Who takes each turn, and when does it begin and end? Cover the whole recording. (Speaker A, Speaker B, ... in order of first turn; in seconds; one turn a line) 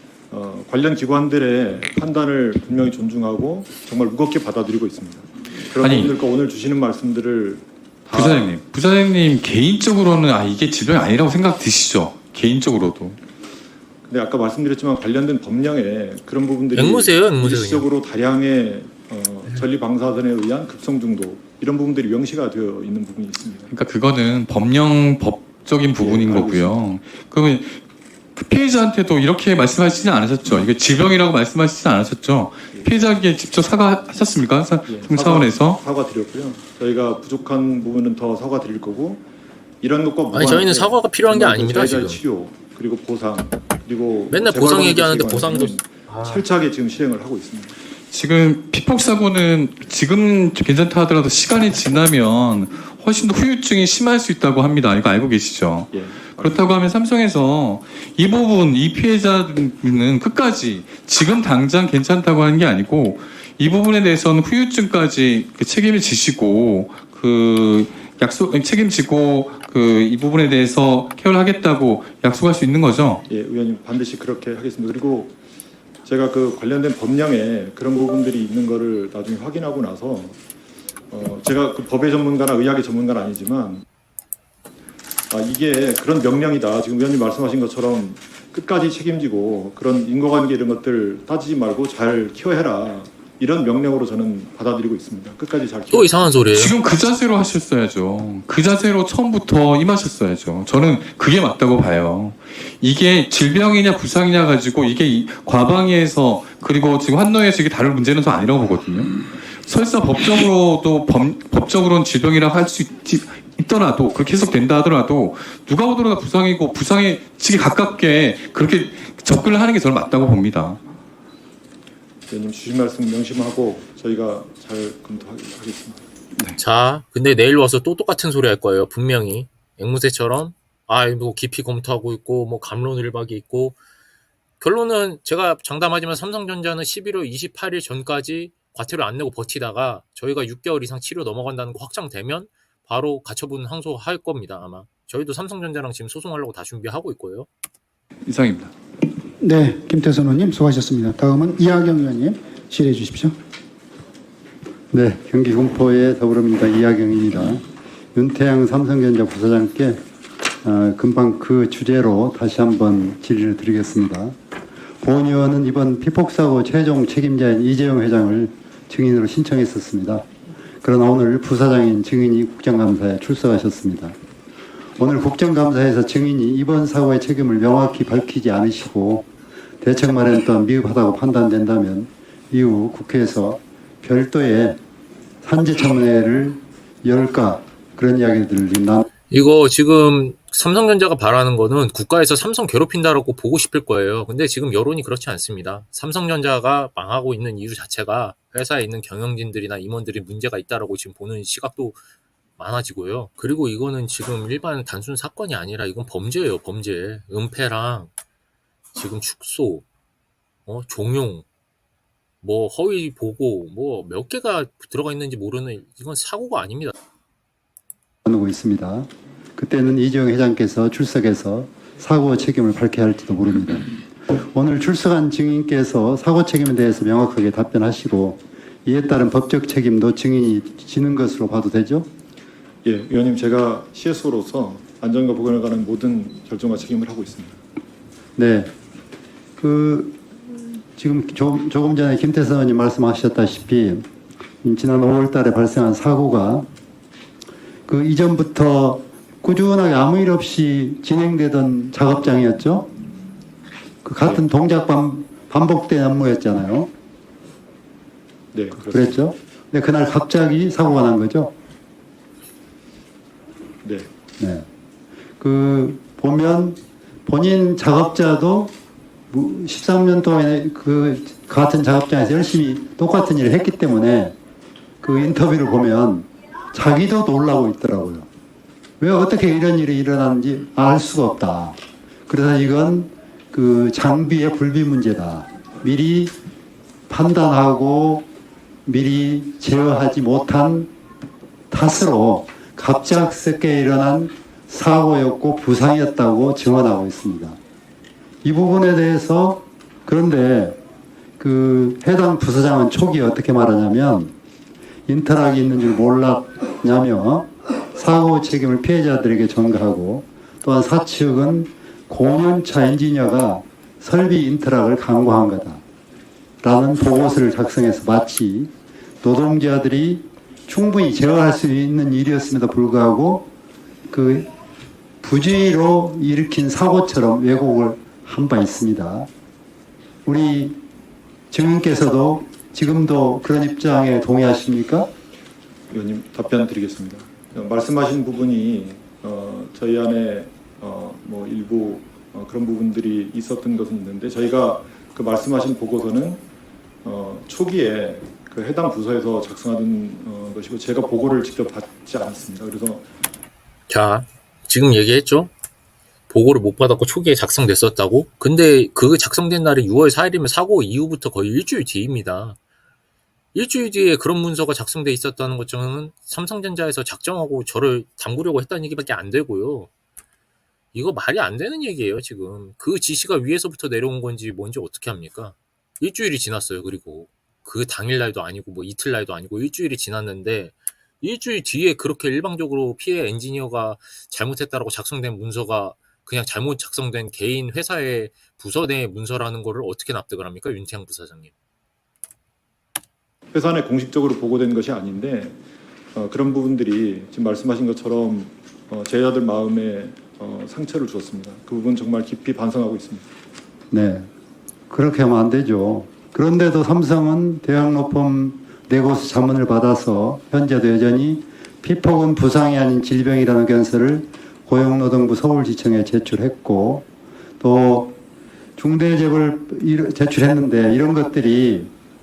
Speaker A: 0.3-8.5
Speaker B: 5.8-6.2
Speaker B: 8.1-13.2
Speaker A: 14.1-23.7
Speaker C: 16.7-17.9
Speaker B: 23.7-27.8
Speaker A: 26.0-26.8
Speaker B: 28.3-35.8
Speaker A: 34.9-39.2
Speaker A: 39.8-47.8
Speaker C: 40.3-42.2
Speaker C: 44.3-46.4
Speaker B: 48.1-73.2
Speaker A: 55.9-56.8
Speaker A: 73.3-75.3
Speaker A: 76.0-80.4
Speaker A: 81.1-83.8
Speaker A: 85.3-96.3
Speaker C: 95.9-96.8
Speaker B: 96.5-120.8
Speaker A: 122.3-126.0
Speaker C: 126.6-133.8
Speaker C: 134.6-147.5
Speaker B: 148.2-148.7
Speaker D: 149.4-153.3
Speaker E: 154.9-157.6
Speaker E: 158.1-160.0
Speaker E: 160.6-164.3
Speaker E: 165.0-170.3
Speaker E: 170.8-174.2
Speaker E: 175.0-179.3
Speaker E: 179.8-184.8
Speaker E: 185.4-189.1
Speaker C: 189.3-202.0
Speaker C: 202.6-208.1
Speaker C: 208.9-209.8
Speaker C: 210.7-211.4
Speaker C: 212.4-216.9
Speaker E: 218.2-232.1
Speaker A: 232.8-237.6
Speaker E: 238.3-238.7
Speaker E: 239.6-240.2
Speaker E: 240.9-244.1
Speaker E: 244.6-246.7
Speaker E: 247.9-252.9
Speaker E: 254.0-256.9
Speaker A: 258.5-259.2
Speaker E: 258.7-261.5
Speaker A: 263.8-264.1
Speaker E: 264.4-264.6
Speaker E: 265.4-268.7
Speaker E: 269.3-274.3
Speaker E: 275.0-278.3
Speaker E: 279.0-286.3
Speaker E: 287.1-288.3
Speaker E: 288.9-290.9
Speaker E: 291.7-297.6
Speaker E: 298.4-300.8
Speaker E: 301.4-304.3
Speaker E: 305.1-315.8
Speaker E: 316.6-323.5
Speaker E: 324.1-324.5
Speaker E: 325.2-329.3
Speaker E: 330.2-330.8
Speaker E: 331.5-335.1
Speaker A: 335.9-346.4
Speaker A: 347.0-353.1
Speaker C: 353.9-355.5
Speaker C: 356.3-362.6
Speaker C: 363.5-369.9
Speaker C: 370.9-391.5
Speaker A: 393.5-395.6
Speaker A: 396.1-403.3
Speaker E: 403.9-404.3
Speaker E: 404.9-417.1
Speaker E: 417.6-418.2
Speaker E: 418.8-421.9